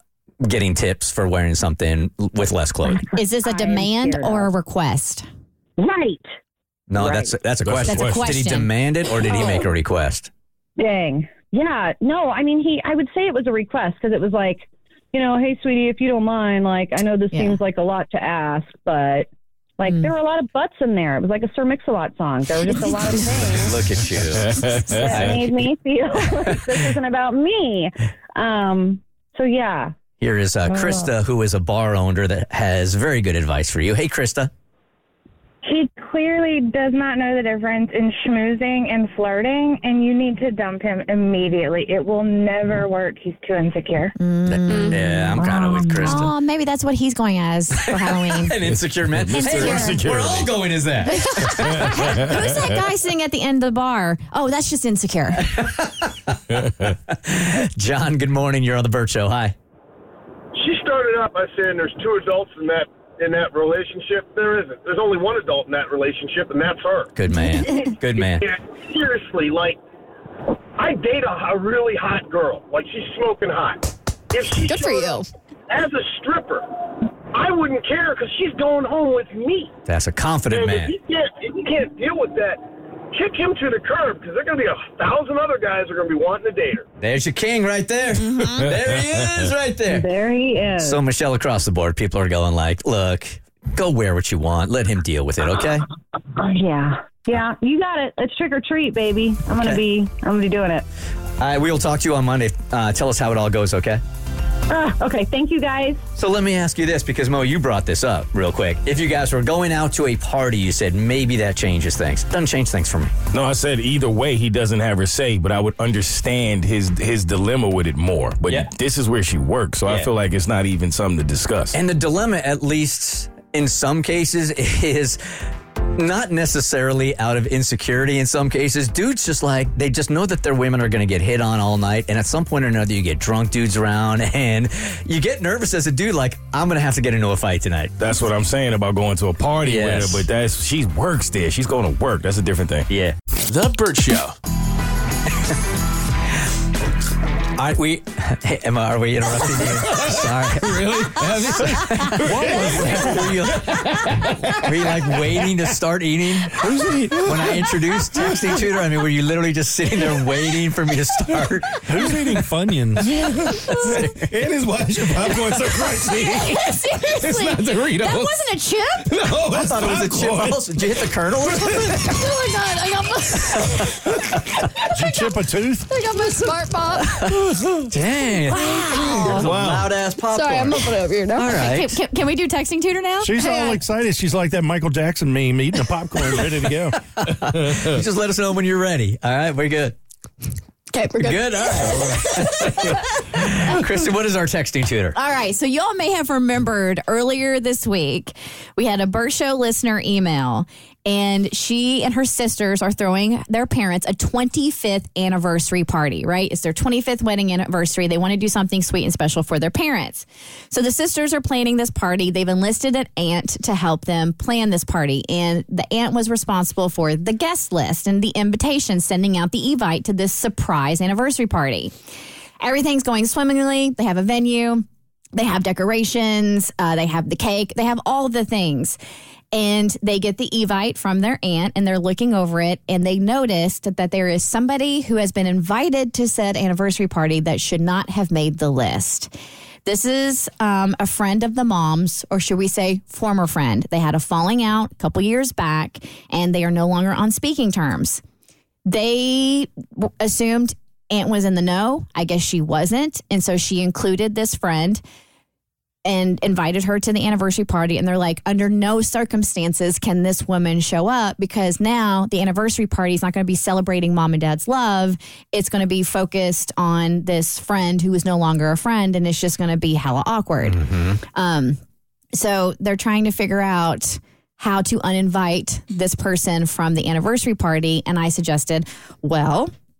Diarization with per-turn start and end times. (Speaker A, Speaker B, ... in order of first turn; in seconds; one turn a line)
Speaker A: 0.4-3.1
Speaker B: 3.1-5.3
Speaker C: 3.4-4.5
Speaker C: 5.8-6.3
Speaker A: 6.9-10.3
Speaker C: 7.0-7.3
Speaker D: 7.6-8.3
Speaker B: 7.8-8.7
Speaker C: 10.8-23.7
Speaker B: 17.3-17.6
Speaker B: 19.9-20.1
Speaker E: 22.8-23.6
Speaker A: 23.6-25.5
Speaker D: 24.1-25.5
Speaker C: 25.0-29.9
Speaker A: 26.5-26.7
Speaker A: 30.2-34.5
Speaker C: 30.7-31.1
Speaker E: 35.6-44.1
Speaker B: 44.2-48.6
Speaker A: 44.5-46.3
Speaker A: 48.0-52.2
Speaker D: 48.6-50.5
Speaker B: 49.3-50.1
Speaker B: 51.1-55.5
Speaker D: 51.5-52.6
Speaker A: 55.5-56.4
Speaker D: 56.5-56.9
Speaker A: 57.1-59.5
Speaker F: 60.5-67.1
Speaker A: 67.2-68.5
Speaker F: 68.4-69.8
Speaker F: 70.8-75.2
Speaker G: 74.6-75.2
Speaker F: 75.7-76.7
Speaker F: 77.3-79.7
Speaker A: 79.9-81.0
Speaker F: 80.5-86.9
Speaker A: 87.0-90.1
Speaker B: 88.2-88.7
Speaker D: 88.7-89.5
Speaker C: 90.0-91.0
Speaker A: 90.8-95.9
Speaker C: 96.4-100.8
Speaker A: 99.6-99.8
Speaker A: 101.4-104.0
Speaker C: 104.7-106.0
Speaker A: 106.2-113.1
Speaker D: 113.3-121.8
Speaker A: 121.7-125.2
Speaker A: 126.0-137.9
Speaker D: 138.0-142.9
Speaker A: 139.6-140.2
Speaker A: 142.9-143.2
Speaker D: 143.5-144.3
Speaker A: 147.6-156.6
Speaker D: 149.9-154.6
Speaker H: 152.3-153.2
Speaker D: 156.6-157.5
Speaker A: 157.2-161.8
Speaker D: 161.9-162.5
Speaker H: 161.9-163.1
Speaker D: 163.0-168.3
Speaker B: 166.0-169.1
Speaker D: 169.1-170.6
Speaker A: 169.5-172.0
Speaker D: 171.7-172.0
Speaker B: 172.1-173.7
Speaker A: 173.5-173.8
Speaker H: 174.9-175.9
Speaker G: 175.9-177.2
Speaker A: 177.3-182.0
Speaker B: 178.5-179.4
Speaker G: 178.6-179.4
Speaker H: 179.4-179.9
Speaker G: 180.3-181.7
Speaker B: 181.5-183.8
Speaker H: 183.2-187.0
Speaker A: 187.1-190.0
Speaker G: 190.9-192.0
Speaker A: 191.2-195.2
Speaker B: 191.3-192.5
Speaker B: 195.2-221.9
Speaker B: 222.6-229.0
Speaker B: 229.5-239.3
Speaker B: 239.8-248.2
Speaker B: 248.9-255.0
Speaker B: 256.1-270.8
Speaker A: 270.6-271.2
Speaker B: 271.3-271.8
Speaker B: 272.3-279.7